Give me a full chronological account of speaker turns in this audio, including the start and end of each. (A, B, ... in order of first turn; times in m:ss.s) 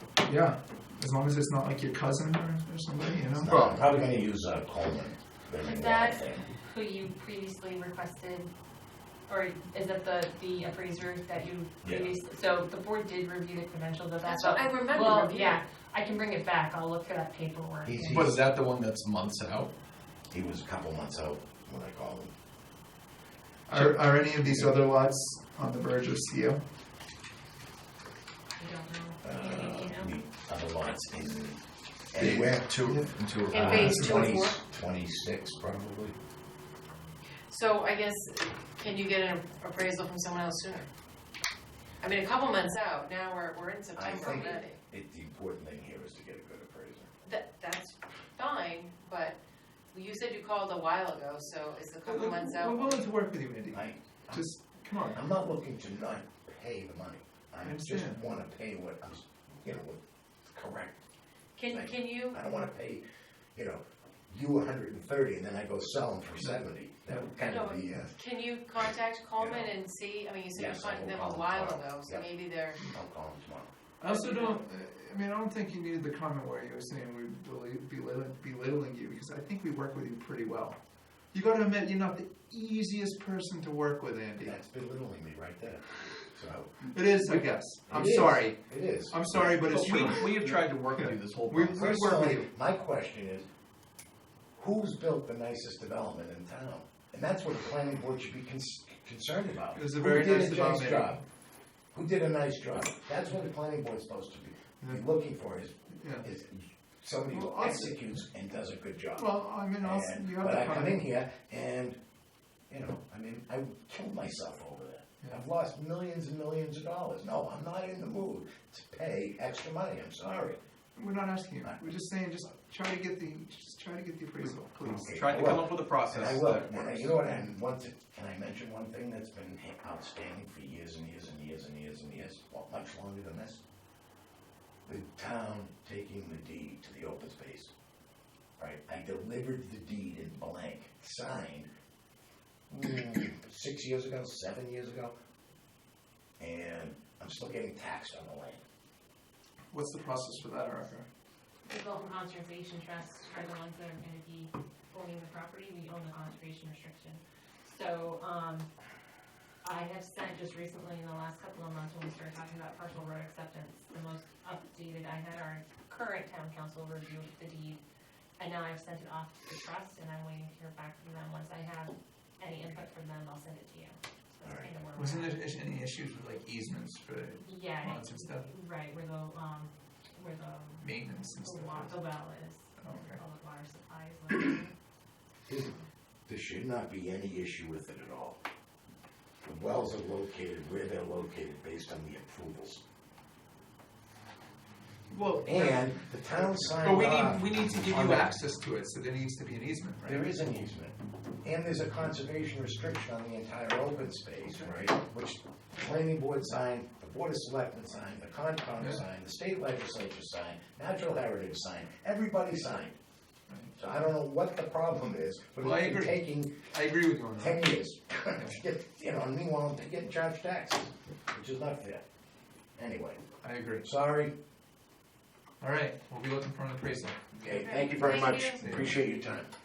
0:00.2-0:03.8 A
0:03.3-0:06.4 B
0:05.6-0:08.5 C
0:09.3-0:18.2 C
0:11.8-0:12.1 B
0:14.2-0:15.6 D
0:17.8-0:18.4 B
0:18.0-0:19.7 E
0:20.3-0:22.3 B
0:23.7-0:26.6 A
0:28.6-0:30.1 C
0:29.2-0:31.6 B
0:32.1-0:32.6 B
0:32.2-0:34.4 A
0:32.2-0:33.8 E
0:33.5-0:34.6 D
0:33.5-0:36.2 B
0:37.5-0:40.9 D
0:42.0-0:44.8 D
0:43.9-0:47.1 B
0:44.2-0:44.6 C
0:47.2-0:49.4 D
0:49.9-0:53.0 D
0:52.0-0:55.2 A
0:53.7-0:54.5 B
0:55.1-1:01.0 B
0:57.6-0:58.4 A
1:01.6-1:02.4 D
1:01.7-1:03.0 B
1:03.5-1:08.1 B
1:06.4-1:07.3 A
1:07.4-1:12.9 D
1:09.4-1:09.7 B
1:10.5-1:12.3 B
1:12.8-1:13.7 B
1:14.0-1:20.8 A
1:14.0-1:14.6 D
1:21.3-1:24.6 A
1:24.4-1:29.4 B
1:26.9-1:32.5 A
1:29.5-1:31.9 E
1:31.8-1:33.5 B
1:34.6-1:41.2 B
1:39.7-1:41.2 A
1:41.9-1:52.0 B
1:44.8-1:45.1 A
1:46.0-1:46.2 A
1:47.3-1:48.0 A
1:49.2-1:51.0 A
1:52.7-2:00.6 B
2:00.9-2:05.1 A
2:04.4-2:07.1 E
2:05.0-2:13.6 B
2:14.8-2:17.7 B
2:18.6-2:21.7 B
2:22.7-2:25.1 B
2:26.4-2:28.6 B
2:29.7-2:31.1 A
2:31.6-2:38.7 C
2:39.6-2:47.8 C
2:48.4-2:55.4 C
2:54.4-2:54.8 B
2:55.0-2:58.4 A
2:57.4-3:04.7 C
3:00.8-3:02.0 A
3:02.8-3:03.2 A
3:05.5-3:08.4 B
3:09.4-3:12.8 B
3:15.1-3:20.3 A
3:15.4-3:18.2 B
3:20.0-3:33.0 B
3:28.8-3:29.0 A
3:33.5-3:33.8 A
3:33.8-3:36.6 B
3:35.6-3:37.6 A
3:37.3-3:42.0 B
3:38.4-3:38.6 A
3:42.8-3:43.2 B
3:43.4-3:43.9 A
3:43.8-3:44.3 B
3:45.6-3:47.6 A
3:47.4-3:49.5 B
3:47.5-3:48.2 C
3:47.6-3:48.8 D
3:48.4-3:49.0 A